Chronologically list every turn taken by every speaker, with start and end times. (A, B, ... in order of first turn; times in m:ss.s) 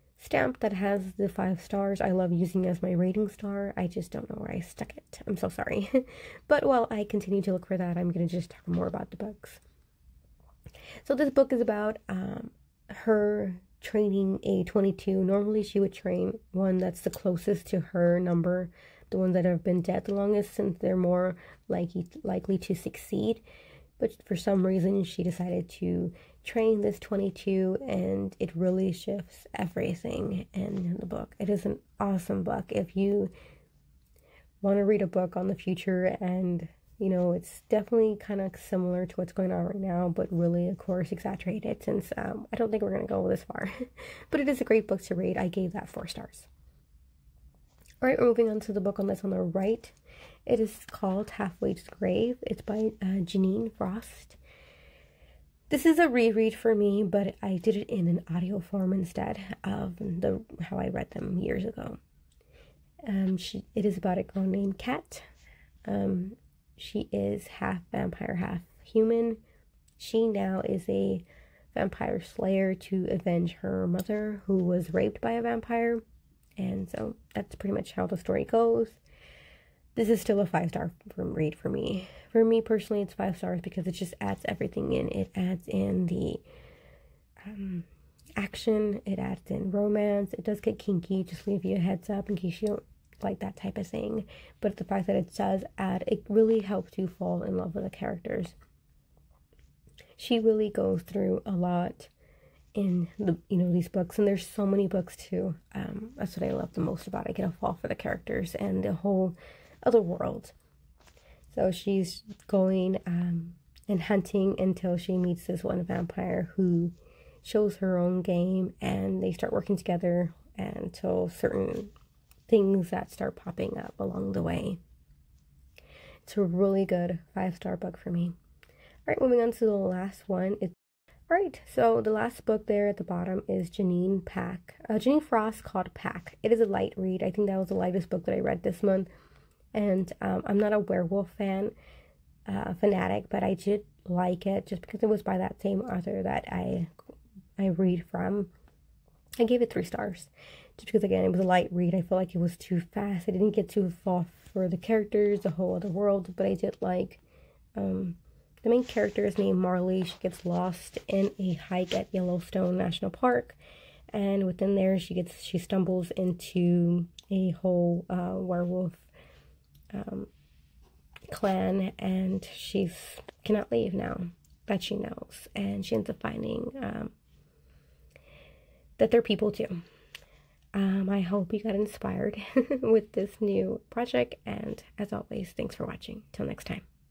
0:00.2-0:09.6 A
0:11.0-0:23.4 A
0:24.0-0:33.3 A
0:34.6-0:46.5 A
0:48.0-0:50.0 A
0:50.5-0:54.4 A
0:55.7-1:02.0 A
1:03.0-1:05.3 A
1:05.9-1:09.4 A
1:10.0-1:16.0 A
1:16.6-1:19.0 A
1:20.0-1:26.4 A
1:27.4-1:27.9 A
1:28.4-1:38.6 A
1:40.2-1:42.1 A
1:42.8-1:50.6 A
1:51.5-2:01.9 A
2:02.5-2:04.8 A
2:06.3-2:08.3 A
2:09.1-2:10.7 A
2:11.3-2:19.1 A
2:19.7-2:21.8 A
2:22.5-2:26.9 A
2:27.6-2:28.5 A
2:29.4-2:37.2 A
2:37.8-2:43.6 A
2:44.1-2:49.1 A
2:49.9-2:50.3 A
2:51.3-2:57.1 A
2:59.0-2:59.8 A
3:00.8-3:06.8 A